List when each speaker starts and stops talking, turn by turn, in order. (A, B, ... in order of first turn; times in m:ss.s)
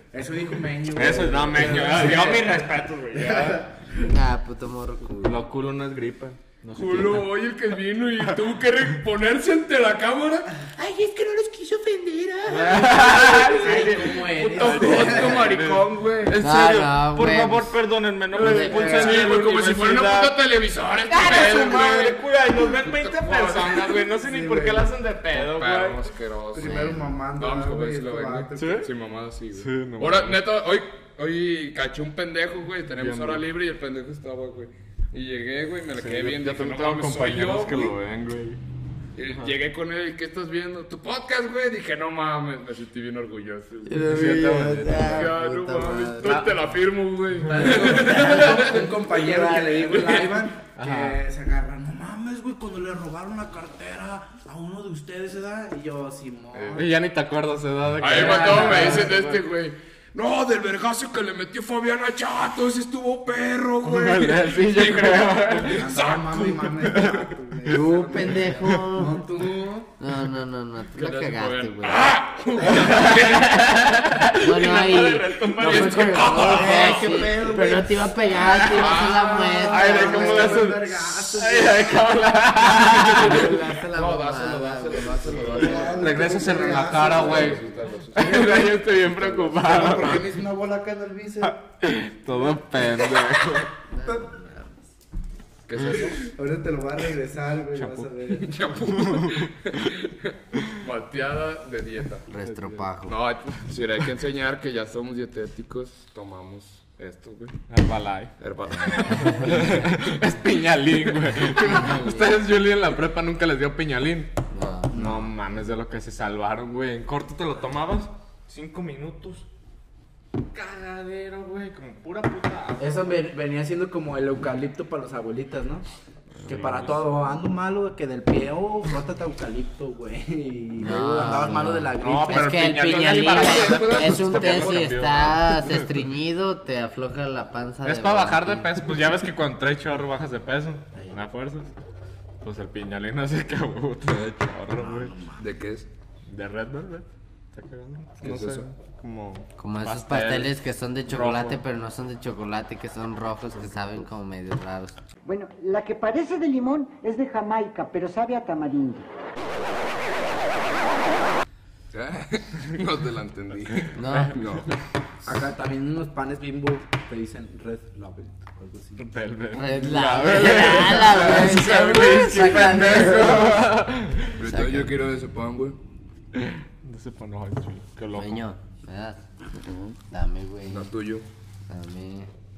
0:00.1-0:04.0 A
0:00.9-0:03.8 B
0:04.0-0:05.4 C
0:05.2-0:07.4 B
0:06.8-0:10.5 D
0:10.8-0:13.0 C
0:12.5-0:20.3 B
0:12.8-0:15.6 A
0:13.1-0:16.4 D
0:16.4-0:17.8 C
0:18.3-0:19.3 A
0:18.3-0:19.1 C
0:18.8-0:24.1 D
0:21.1-0:26.0 B
0:24.2-0:24.9 A
0:25.3-0:38.0 D
0:26.5-0:28.9 A
0:26.6-0:27.1 C
0:28.6-0:28.9 B
0:29.5-0:30.4 B
0:33.0-0:33.4 B
0:36.0-0:38.6 B
0:39.2-0:44.0 D
0:43.9-0:46.5 C
0:44.0-0:45.3 B
0:45.0-0:50.3 D
0:46.2-0:46.6 B
0:47.5-0:56.9 A
0:47.6-0:48.3 B
0:49.2-0:49.6 C
0:50.8-0:51.2 B
0:56.5-0:56.8 D
0:56.8-0:59.4 B
0:58.0-1:06.9 D
0:58.0-0:59.2 A
1:03.8-1:06.0 B
1:05.6-1:09.9 A
1:06.8-1:07.9 B
1:07.7-1:09.2 C
1:08.6-1:08.9 B
1:10.0-1:12.2 C
1:10.9-1:13.7 D
1:12.6-1:17.2 B
1:14.4-1:20.6 C
1:15.6-1:17.3 D
1:16.3-1:17.9 A
1:18.4-1:23.5 B
1:18.7-1:19.6 D
1:18.8-1:22.2 A
1:22.7-1:29.9 D
1:23.1-1:26.1 C
1:25.4-1:28.8 A
1:26.0-1:27.6 B
1:28.2-1:30.2 B
1:29.4-1:31.6 A
1:31.4-1:33.7 B
1:33.9-1:34.8 C
1:35.7-1:36.3 D
1:36.3-1:38.8 A
1:37.8-1:38.1 B
1:38.3-1:42.3 D
1:38.9-1:39.7 B
1:42.3-1:43.2 C
1:42.4-1:42.8 B
1:43.1-1:47.6 D
1:47.7-1:54.3 B
1:48.4-1:49.8 D
1:51.6-1:52.3 C
1:54.5-1:54.9 C
1:54.9-1:55.3 A
1:54.9-1:59.5 B
2:00.5-2:03.2 B
2:02.8-2:05.9 A
2:06.5-2:07.0 B
2:06.5-2:13.0 A
2:10.8-2:18.7 C
2:10.8-2:11.5 D
2:12.0-2:15.9 B
2:13.0-2:15.0 D
2:17.8-2:21.7 B
2:22.4-2:25.1 B
2:24.7-2:25.4 A
2:25.4-2:25.9 D
2:26.3-2:30.6 B
2:28.2-2:28.7 D
2:29.6-2:35.0 C
2:31.1-2:31.6 B
2:35.3-2:39.0 E
2:41.9-2:44.8 D
2:44.0-2:44.4 C
2:44.1-2:44.5 B
2:45.2-2:49.0 A
2:49.0-2:54.4 B
2:49.5-2:53.7 C
2:54.4-2:55.8 D
2:54.4-2:54.9 C
2:56.3-2:58.4 B
2:58.2-2:59.2 C
2:59.6-3:00.0 D
3:00.1-3:00.9 C
3:00.7-3:01.3 D
3:01.7-3:02.3 C